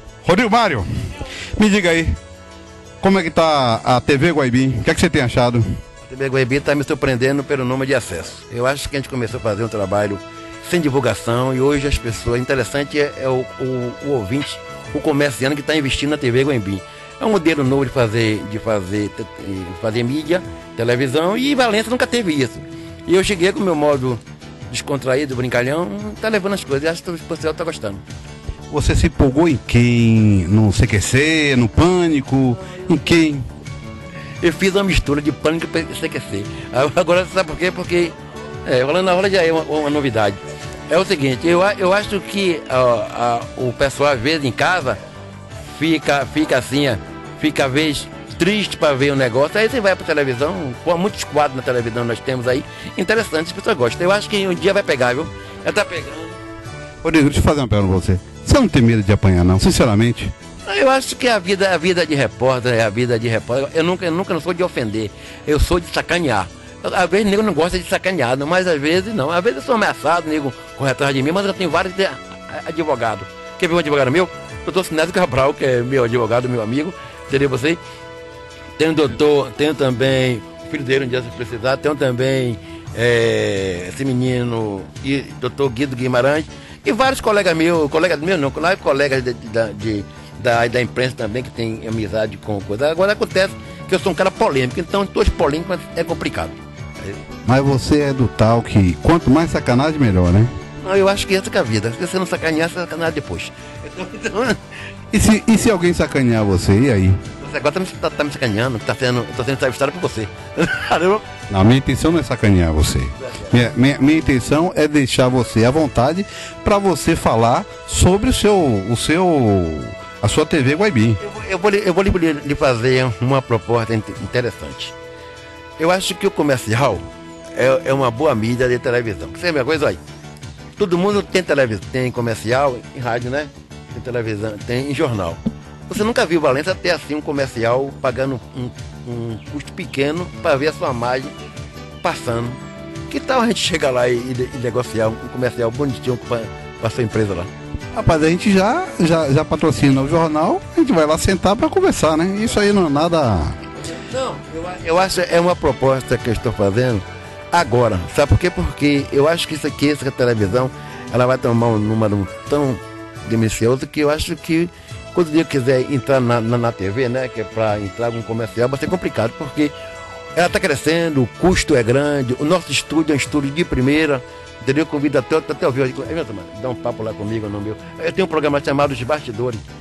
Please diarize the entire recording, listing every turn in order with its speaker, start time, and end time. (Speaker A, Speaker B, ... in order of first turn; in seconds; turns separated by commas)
Speaker A: 0.2-2.2, Speaker A: 3.0-5.8, Speaker B: 6.0-28.0, Speaker A: 28.7-33.5, Speaker B: 34.4-45.0, Speaker B: 45.7-56.4, Speaker A: 57.0-60.3, Speaker B: 60.6-77.8, Speaker B: 78.8-97.2, Speaker A: 97.5-100.5, Speaker B: 100.8-104.8, Speaker A: 105.1-107.2, Speaker B: 107.4-111.2, Speaker A: 111.5-121.2, Speaker B: 121.2-124.9, Speaker B: 125.8-130.0, Speaker B: 130.8-141.3, Speaker B: 142.0-147.5, Speaker A: 147.9-153.6, Speaker B: 153.9-169.7, Speaker B: 170.3-179.7